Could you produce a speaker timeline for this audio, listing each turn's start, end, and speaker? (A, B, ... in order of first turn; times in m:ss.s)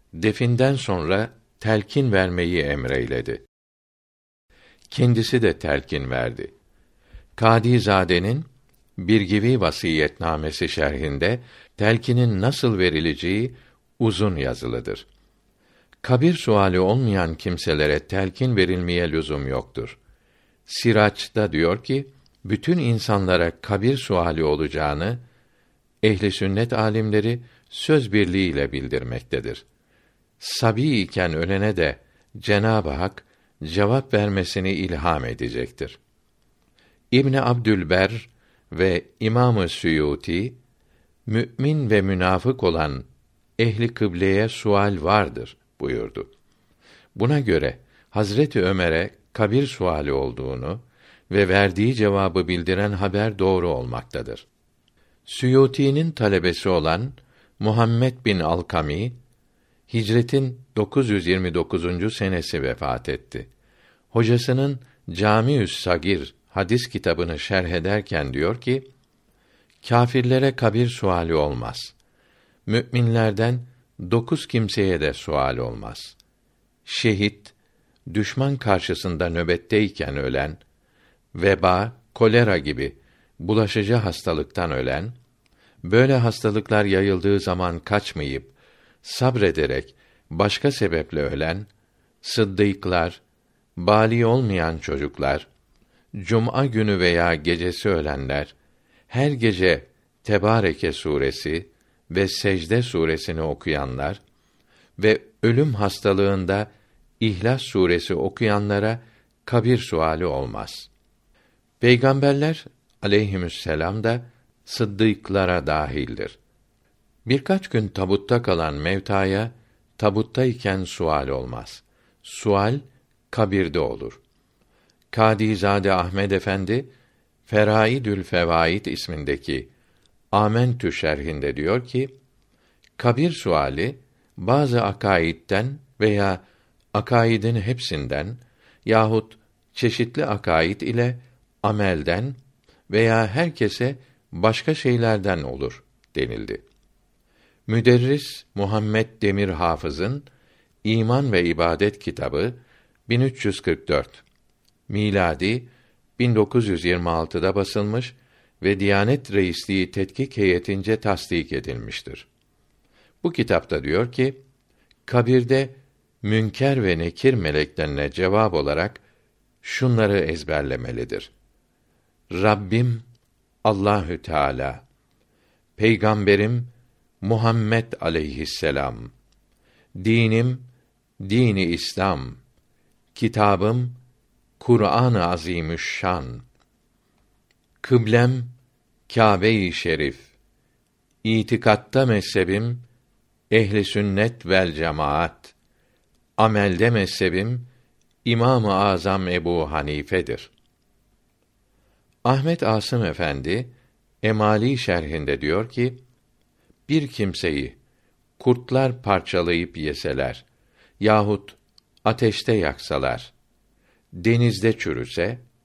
0:00.2-0:03.4 A
0:04.9-0:06.5 A
0:07.4-0:15.1 A
0:16.0-0:20.0 A
0:20.7-0:25.2 A
0:26.0-0:29.6 A
0:30.4-0:36.0 A
0:37.1-0:40.6 A
0:41.3-0:43.1 A
0:43.6-0:46.3 A
0:47.2-0:54.5 A
0:55.3-0:59.2 A
0:59.9-1:03.5 A
1:04.1-1:08.9 A
1:09.8-1:12.0 A
1:12.7-1:16.2 A
1:16.8-1:17.5 A
1:18.1-1:20.6 A
1:21.3-1:25.2 A
1:25.8-1:31.7 A
1:32.2-1:33.2 A
1:33.8-1:35.5 A
1:36.2-1:38.5 A
1:39.1-1:44.2 A
1:45.0-1:50.9 A
1:51.8-1:56.4 A
1:57.3-2:04.2 A
2:05.1-2:06.9 A
2:07.5-2:09.7 A
2:10.3-2:12.1 A
2:13.0-2:22.4 A
2:22.9-2:26.6 A
2:27.7-2:30.3 A
2:30.8-2:34.2 A
2:34.9-2:42.3 A
2:43.2-2:44.4 A
2:45.1-2:49.0 A
2:49.6-2:51.3 A
2:52.3-2:53.0 A
2:53.6-2:54.8 A
2:55.8-2:56.7 A
2:57.2-2:59.1 A
3:00.0-3:00.7 A
3:01.2-3:02.4 A
3:03.1-3:04.0 A
3:04.6-3:06.4 A
3:07.8-3:08.5 A
3:09.1-3:10.3 A
3:11.2-3:12.8 A
3:13.5-3:15.5 A
3:16.4-3:17.7 A
3:18.2-3:20.5 A
3:22.2-3:26.0 A
3:26.9-3:27.8 A
3:28.4-3:30.5 A
3:31.0-3:33.3 A
3:34.1-3:35.4 A